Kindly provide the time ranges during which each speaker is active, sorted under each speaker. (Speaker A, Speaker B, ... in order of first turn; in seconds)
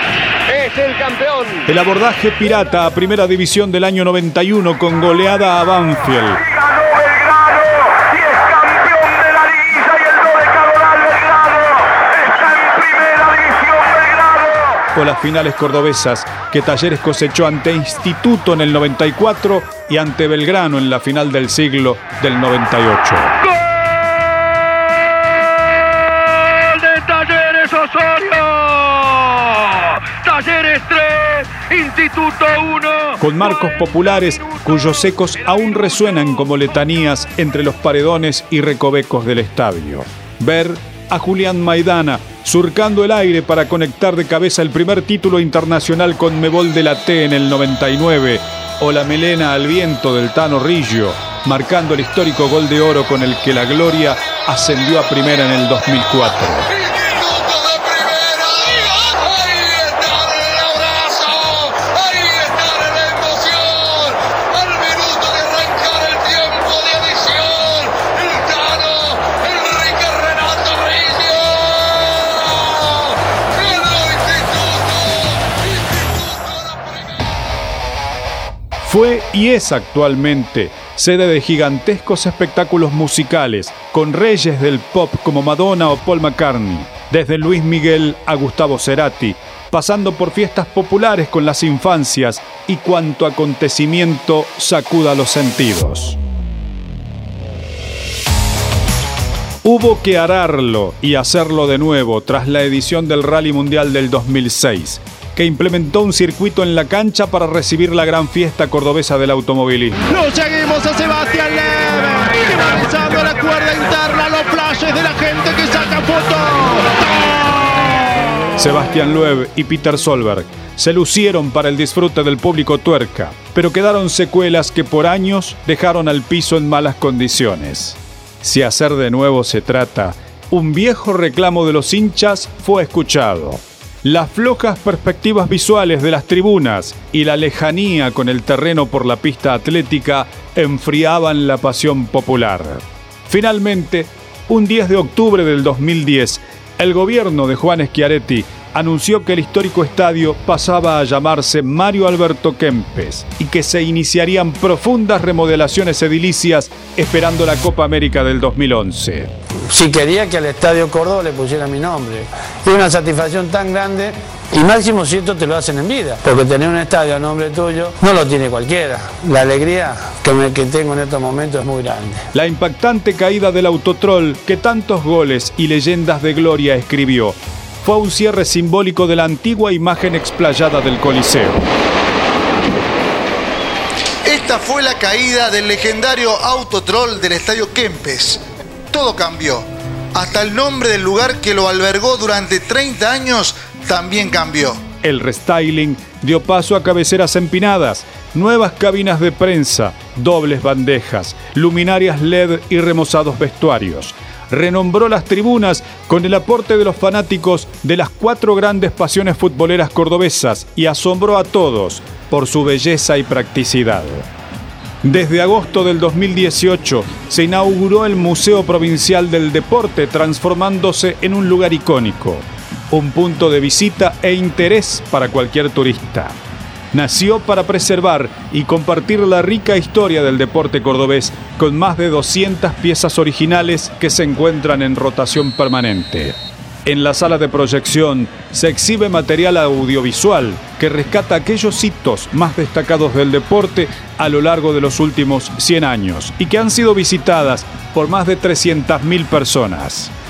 Speaker A: 0.5-1.7, 8.7-11.1
Speaker B: 1.7-6.4, 14.9-23.4, 33.1-56.7, 78.8-96.2, 99.6-110.0, 118.6-159.3, 172.3-181.7, 195.0-214.3, 215.0-226.4, 226.9-250.1
Speaker C: 110.1-117.9
Speaker D: 159.7-172.2
Speaker E: 184.2-194.8